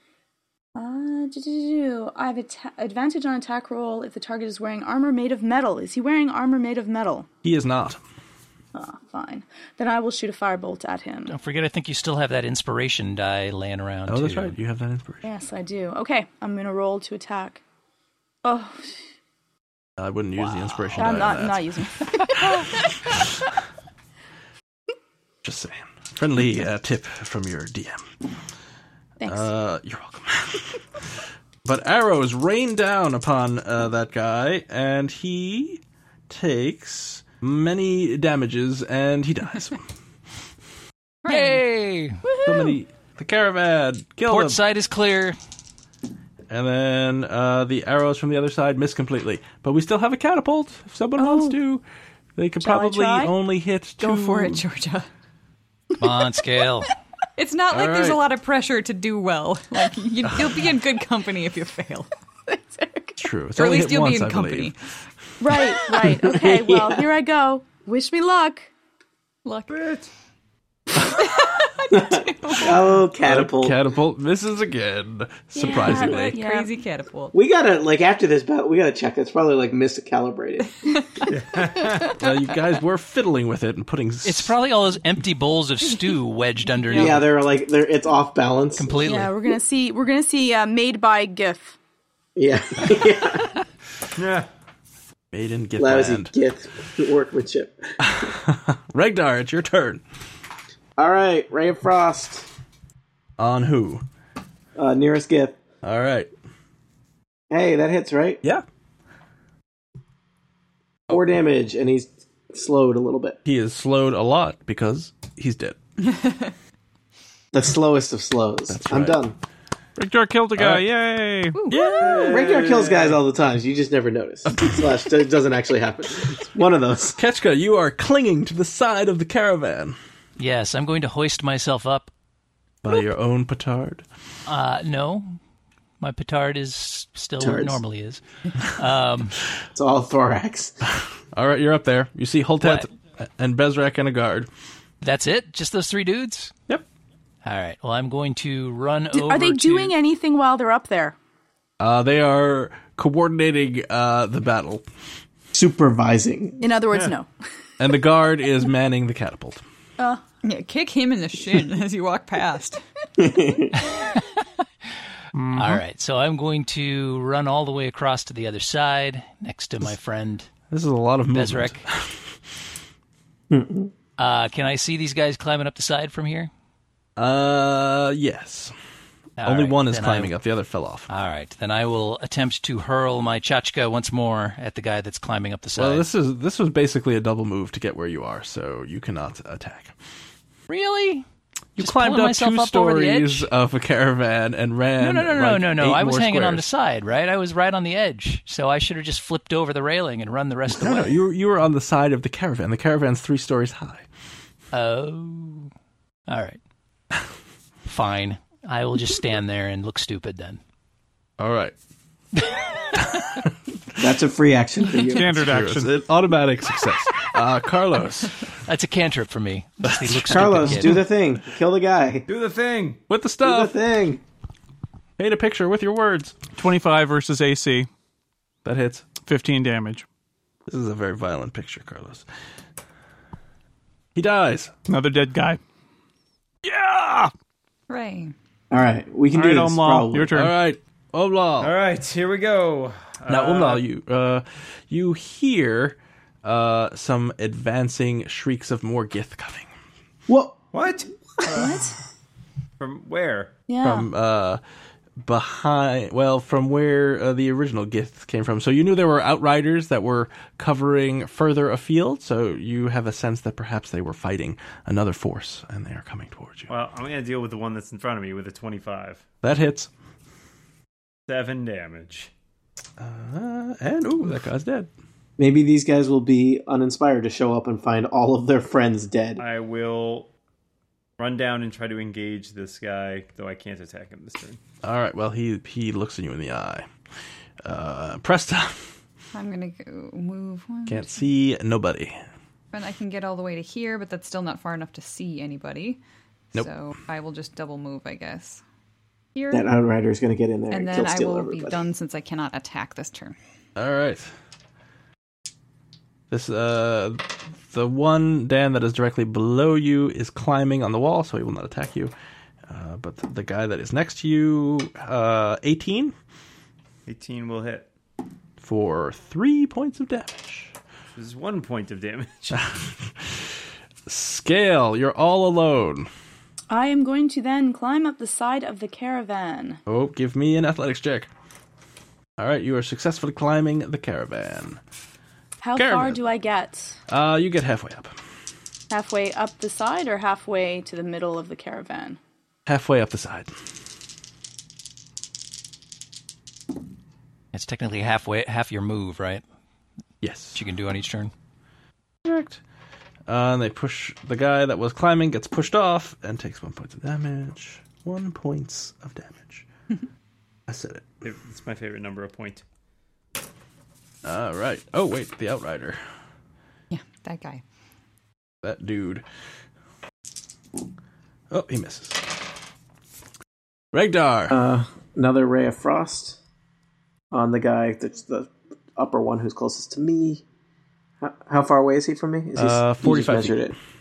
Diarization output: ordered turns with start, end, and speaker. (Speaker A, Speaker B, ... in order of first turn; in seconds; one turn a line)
Speaker A: 0.7-7.3
Speaker B: 7.4-8.0
Speaker A: 8.7-11.3
Speaker C: 11.3-14.6
Speaker B: 14.1-15.2
Speaker A: 15.2-17.6
Speaker A: 18.4-18.9
Speaker B: 20.0-21.6
Speaker C: 20.4-21.1
Speaker A: 20.9-22.8
Speaker B: 25.4-28.1
Speaker A: 29.2-29.4
Speaker B: 29.3-30.8
Speaker B: 31.6-39.8
Speaker D: 41.2-41.6
Speaker C: 41.2-42.2
Speaker B: 42.4-44.6
Speaker C: 44.2-45.4
Speaker B: 46.5-51.8
Speaker A: 51.2-51.5
Speaker B: 52.4-54.6
Speaker A: 52.6-53.3
Speaker D: 54.0-55.1
Speaker C: 56.0-56.9
Speaker D: 57.4-62.1
Speaker B: 57.7-58.2
Speaker A: 62.5-63.2
Speaker B: 63.2-64.7
Speaker D: 63.5-64.7
Speaker A: 65.4-68.7
Speaker E: 66.2-67.1
Speaker D: 69.4-69.8
Speaker F: 69.7-70.1
Speaker D: 71.0-72.9
Speaker E: 71.9-73.8
Speaker B: 73.2-76.3
Speaker A: 75.5-76.7
Speaker D: 75.8-77.3
Speaker E: 77.3-80.7
Speaker D: 80.8-82.1
Speaker F: 81.2-82.1
Speaker B: 82.1-84.5
Speaker C: 84.2-87.3
Speaker E: 86.9-89.0
Speaker C: 88.8-89.4
Speaker A: 89.0-91.8
Speaker E: 92.3-93.5
Speaker F: 94.2-94.5
Speaker B: 95.3-96.3
Speaker E: 95.8-97.8
Speaker B: 98.0-100.0
Speaker E: 101.0-102.5
Speaker B: 103.4-104.0
Speaker E: 104.8-105.6
Speaker B: 105.8-106.3
Speaker E: 107.5-108.4
Speaker E: 111.1-113.4
Speaker B: 113.4-115.8
Speaker D: 116.0-116.5
Speaker E: 117.5-119.3
Speaker B: 118.7-119.2
Speaker G: 120.0-121.6
Speaker B: 120.5-120.9
Speaker D: 121.5-122.3
Speaker B: 121.7-122.7
Speaker E: 122.2-127.2
Speaker B: 127.2-129.9
Speaker C: 130.4-132.1
Speaker B: 132.8-134.0
Speaker C: 134.4-135.3
Speaker C: 136.0-139.4
Speaker E: 137.4-137.8
Speaker E: 139.7-140.8
Speaker B: 141.3-144.5
Speaker C: 142.6-142.9
Speaker C: 145.0-146.5
Speaker C: 147.4-149.9
Speaker A: 149.1-151.2
Speaker B: 151.8-154.8
Speaker E: 155.5-156.6
Speaker A: 156.6-157.3
Speaker B: 157.8-159.6
Speaker A: 160.0-160.2
Speaker D: 160.4-162.8
Speaker E: 163.2-163.8
Speaker C: 163.9-164.2
Speaker G: 165.3-165.8
Speaker C: 165.5-170.5
Speaker B: 170.7-172.3
Speaker C: 171.3-171.8
Speaker E: 173.5-173.9
Speaker C: 174.2-176.5
Speaker B: 177.2-178.7
Speaker C: 179.4-180.3
Speaker B: 179.4-181.1
Speaker C: 181.1-186.1
Speaker B: 185.8-189.9
Speaker C: 190.7-191.2
Speaker B: 191.8-196.7
Speaker C: 191.8-193.5
Speaker C: 195.0-201.2
Speaker B: 200.7-204.1
Speaker C: 204.7-205.7
Speaker C: 206.3-206.6
Speaker C: 207.8-210.6
Speaker B: 211.4-211.7
Speaker B: 213.1-213.4
Speaker E: 214.0-215.4
Speaker G: 215.1-215.9
Speaker B: 215.3-218.4
Speaker C: 218.7-221.1
Speaker B: 219.8-221.0
Speaker E: 220.3-222.2
Speaker F: 222.3-223.0
Speaker B: 223.1-223.7
Speaker E: 223.4-224.2
Speaker B: 225.2-226.4
Speaker G: 226.6-227.9
Speaker B: 228.6-229.1
Speaker G: 229.2-230.0
Speaker B: 230.7-232.2
Speaker B: 234.1-234.7
Speaker G: 234.9-235.6
Speaker G: 236.6-237.3
Speaker D: 237.9-238.3
Speaker E: 238.7-240.3
Speaker G: 239.3-240.5
Speaker B: 240.3-241.7
Speaker F: 241.6-243.8
Speaker B: 243.3-249.7
Speaker E: 250.3-250.6
Speaker F: 250.7-251.7
Speaker A: 251.5-252.0
Speaker F: 252.8-253.5
Speaker A: 253.7-254.1
Speaker B: 253.8-254.6
Speaker B: 255.2-266.7
Speaker F: 266.7-269.2
Speaker B: 269.4-269.9
Speaker F: 271.3-272.3
Speaker B: 273.0-274.9
Speaker E: 275.4-279.4
Speaker F: 279.4-280.3
Speaker F: 281.2-284.6
Speaker B: 284.8-286.9
Speaker B: 287.6-288.9
Speaker D: 289.3-291.2
Speaker B: 290.9-292.2
Speaker D: 292.7-296.0
Speaker D: 296.5-298.6
Speaker D: 299.3-299.7
Speaker E: 299.5-301.8
Speaker D: 300.7-303.4
Speaker B: 303.8-304.3
Speaker B: 306.3-312.1
Speaker B: 312.7-316.1
Speaker F: 317.1-317.9
Speaker B: 318.6-320.7
Speaker F: 321.1-322.7
Speaker B: 322.5-322.9
Speaker B: 324.1-326.1
Speaker A: 326.7-329.8
Speaker B: 329.9-331.3
Speaker B: 332.4-334.8
Speaker A: 335.6-337.0
Speaker B: 335.8-336.2
Speaker B: 337.1-338.1
Speaker A: 338.9-342.2
Speaker B: 342.6-343.5
Speaker C: 347.5-349.4
Speaker B: 350.2-350.6
Speaker C: 350.5-351.3
Speaker B: 352.2-352.6
Speaker B: 353.3-359.7
Speaker B: 360.7-361.1
Speaker F: 361.2-362.6
Speaker B: 364.2-366.0
Speaker D: 366.9-367.6
Speaker B: 368.6-369.2
Speaker B: 371.5-372.2
Speaker B: 373.9-374.6
Speaker E: 374.5-376.4
Speaker E: 377.3-380.4
Speaker E: 381.2-383.8
Speaker B: 382.6-383.7